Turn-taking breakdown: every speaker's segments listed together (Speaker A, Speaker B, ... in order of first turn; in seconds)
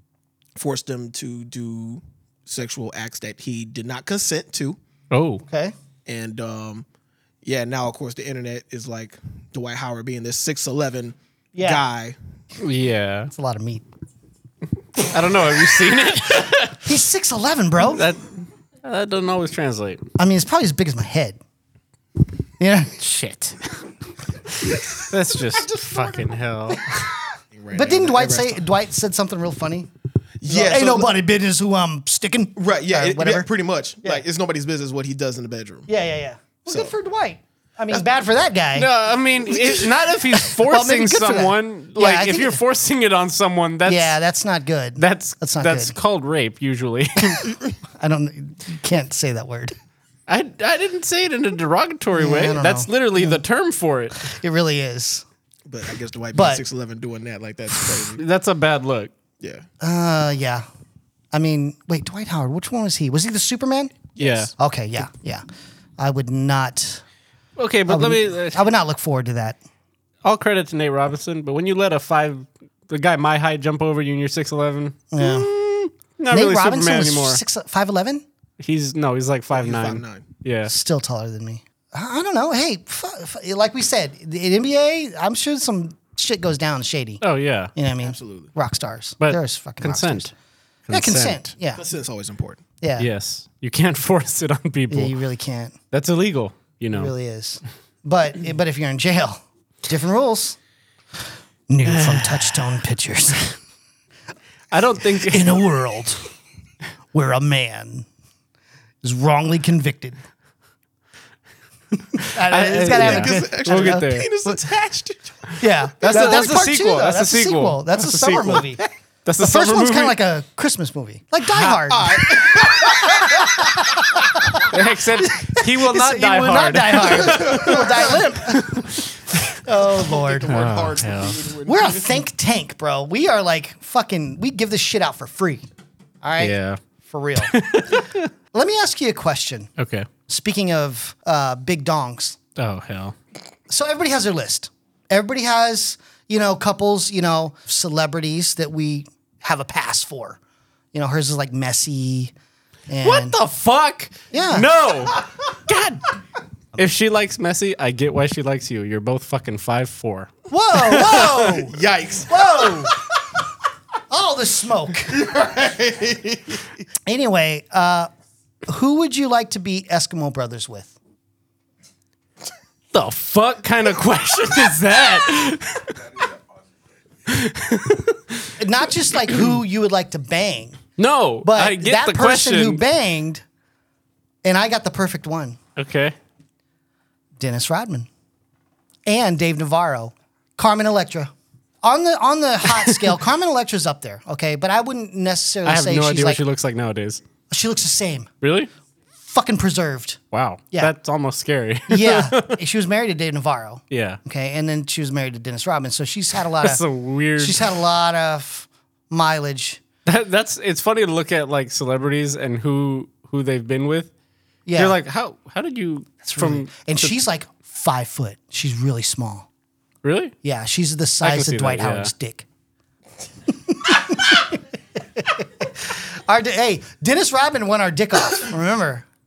Speaker A: 0.6-4.8, 6.1-6.8, 7.4-12.2, 25.6-26.3, 27.5-28.6, 30.4-31.1, 32.6-35.9, 36.7-36.9, 55.6-58.2, 64.2-64.5, 79.5-80.2, 88.0-88.5, 91.8-92.6, 112.8-115.4, 121.6-123.7, 127.3-128.2, 130.0-132.2, 161.3-162.9, 165.1-166.6
Speaker B: 5.1-5.4, 12.6-13.3, 15.0-16.8, 17.8-18.3, 18.8-20.0, 23.0-23.8, 24.7-27.1, 38.7-44.1, 45.0-47.5, 50.3-54.3, 58.1-59.1, 64.2-64.5, 67.6-68.6, 70.2-77.4, 78.6-80.7, 87.2-87.7, 89.2-90.3, 90.9-91.5, 93.0-95.2, 95.9-97.1, 101.8-102.6, 104.7-105.6, 112.2-114.3, 116.0-120.2, 124.7-127.9, 128.5-129.4, 130.5-131.4, 136.4-136.8, 137.4-138.2, 139.8-140.1, 142.6-143.2, 153.0-156.0, 156.8-160.3, 160.8-161.4, 172.9-176.0, 177.3-178.5, 181.0-182.8, 185.8-186.1, 195.6-197.2, 198.4-198.7, 200.3-202.6, 203.9-204.2, 206.6-207.6, 210.1-214.1, 214.8-217.1, 220.0-220.3, 221.2-222.1
Speaker C: 5.4-5.7, 11.5-11.8, 13.3-13.8, 16.8-18.1, 20.2-21.4, 22.6-22.9, 27.7-29.9, 30.4-33.5, 35.9-38.9, 39.4-42.6, 43.8-46.0, 48.0-49.8, 52.1-53.4, 54.2-55.2, 56.3-56.6, 59.8-60.6, 61.3-65.4, 66.0-67.0, 67.9-69.6, 75.1-75.5, 76.3-78.2, 80.7-87.2, 87.7-90.3, 90.9-91.8, 92.8-93.1, 94.9-95.8, 96.9-100.6, 101.7-103.4, 105.2-106.2, 107.1-108.1, 109.0-110.2, 112.1-114.5, 115.6-118.8, 119.4-124.7, 125.2-129.0, 129.5-130.5, 131.7-135.6, 136.2-138.0, 138.5-139.7, 140.3-142.4, 143.7-150.4, 150.9-152.3, 152.9-153.4, 154.3-154.7, 160.5-162.9, 164.1-165.2, 167.1-168.1, 168.7-170.9, 178.6-180.8, 181.4-183.4, 184.4-185.6, 187.4-188.1, 189.1-196.4, 197.5-198.3, 199.2-200.2, 201.9-206.8, 207.4-209.8, 214.7-215.0, 216.2-219.5, 220.4-222.4, 223.5-229.1